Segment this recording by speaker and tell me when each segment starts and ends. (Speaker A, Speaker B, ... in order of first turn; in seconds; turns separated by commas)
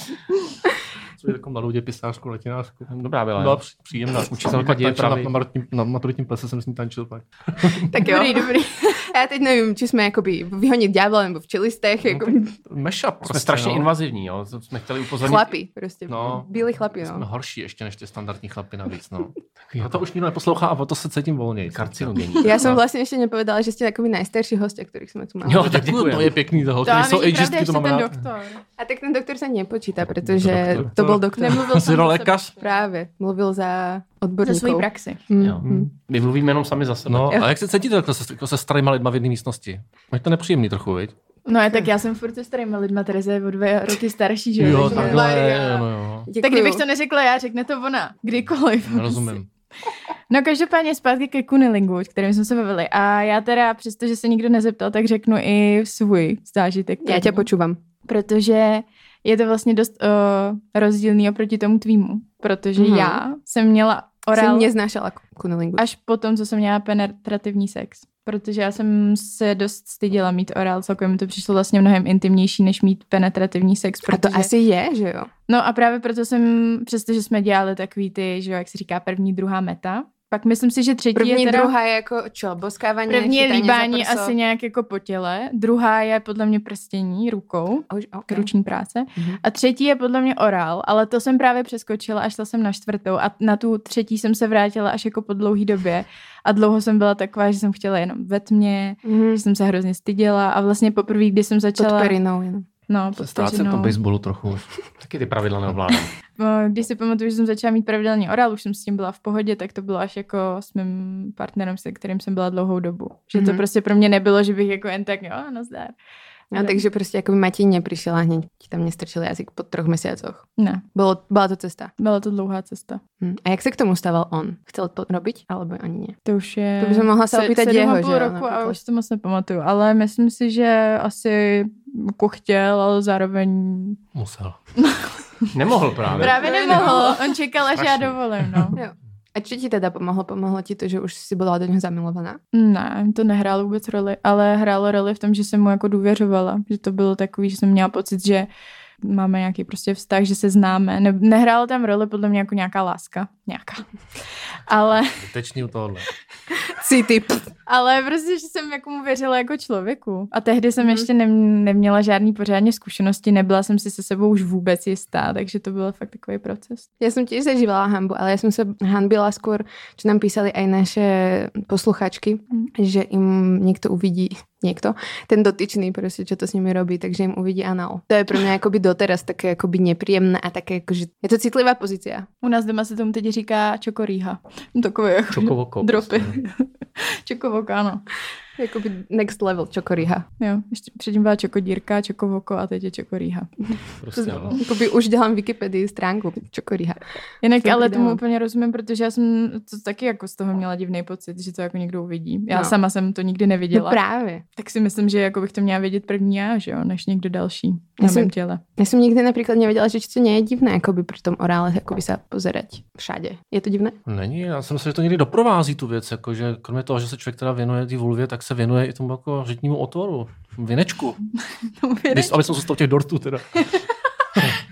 Speaker A: 1.2-7.9, Speaker B: 2.9-3.6, Speaker B: 4.1-5.3, Speaker C: 7.9-12.5, Speaker D: 8.0-9.1, Speaker A: 12.1-13.9, Speaker B: 13.2-15.5, Speaker C: 15.2-17.2, Speaker A: 16.1-16.5, Speaker A: 17.0-22.8, Speaker B: 19.7-20.0, Speaker B: 21.7-22.8, Speaker C: 22.4-25.8, Speaker B: 25.4-26.4, Speaker A: 25.5-28.1, Speaker D: 26.9-28.6, Speaker C: 28.8-31.9, Speaker A: 30.2-32.5, Speaker B: 30.5-30.9, Speaker D: 31.4-32.7, Speaker C: 32.6-35.9, Speaker D: 34.4-35.2, Speaker B: 35.4-37.4, Speaker A: 35.6-35.9, Speaker A: 37.1-41.1, Speaker D: 41.5-45.2, Speaker A: 44.6-46.3, Speaker C: 44.7-46.8, Speaker D: 46.4-49.3, Speaker A: 48.9-49.5, Speaker D: 50.3-57.5, Speaker C: 57.0-57.8, Speaker D: 58.1-64.7, Speaker C: 62.8-63.2, Speaker C: 64.3-65.8, Speaker D: 65.8-74.5, Speaker C: 74.1-75.3, Speaker D: 75.5-81.7, Speaker C: 81.1-84.3, Speaker D: 83.1-102.1, Speaker C: 87.9-88.5, Speaker C: 99.0-99.4, Speaker C: 101.8-102.7, Speaker D: 102.9-104.0, Speaker A: 103.2-104.7, Speaker B: 105.0-106.1, Speaker D: 106.4-116.0, Speaker C: 113.3-113.6, Speaker C: 116.5-121.9, Speaker D: 116.5-116.8, Speaker D: 120.6-120.8, Speaker D: 122.0-123.0, Speaker C: 123.2-126.2, Speaker D: 126.2-134.0, Speaker C: 126.8-128.8, Speaker A: 134.1-134.6, Speaker D: 134.8-135.5, Speaker B: 135.5-136.6, Speaker A: 136.1-136.4, Speaker D: 136.2-138.8, Speaker C: 136.2-137.3, Speaker A: 137.8-138.8, Speaker C: 138.8-142.4, Speaker D: 142.5-148.5, Speaker D: 149.0-153.8, Speaker D: 154.7-155.2, Speaker A: 155.1-156.1, Speaker C: 156.8-157.5, Speaker D: 157.7-166.8, Speaker C: 167.0-182.3, Speaker D: 182.4-188.0, Speaker B: 185.3-186.3, Speaker C: 188.6-190.2, Speaker D: 190.4-193.5, Speaker B: 194.0-194.6, Speaker C: 194.1-197.0, Speaker D: 197.4-204.0, Speaker C: 197.6-198.2, Speaker C: 203.7-204.4, Speaker D: 204.6-208.6, Speaker C: 208.0-214.0, Speaker A: 214.1-221.2, Speaker D: 221.8-222.5, Speaker A: 222.1-223.7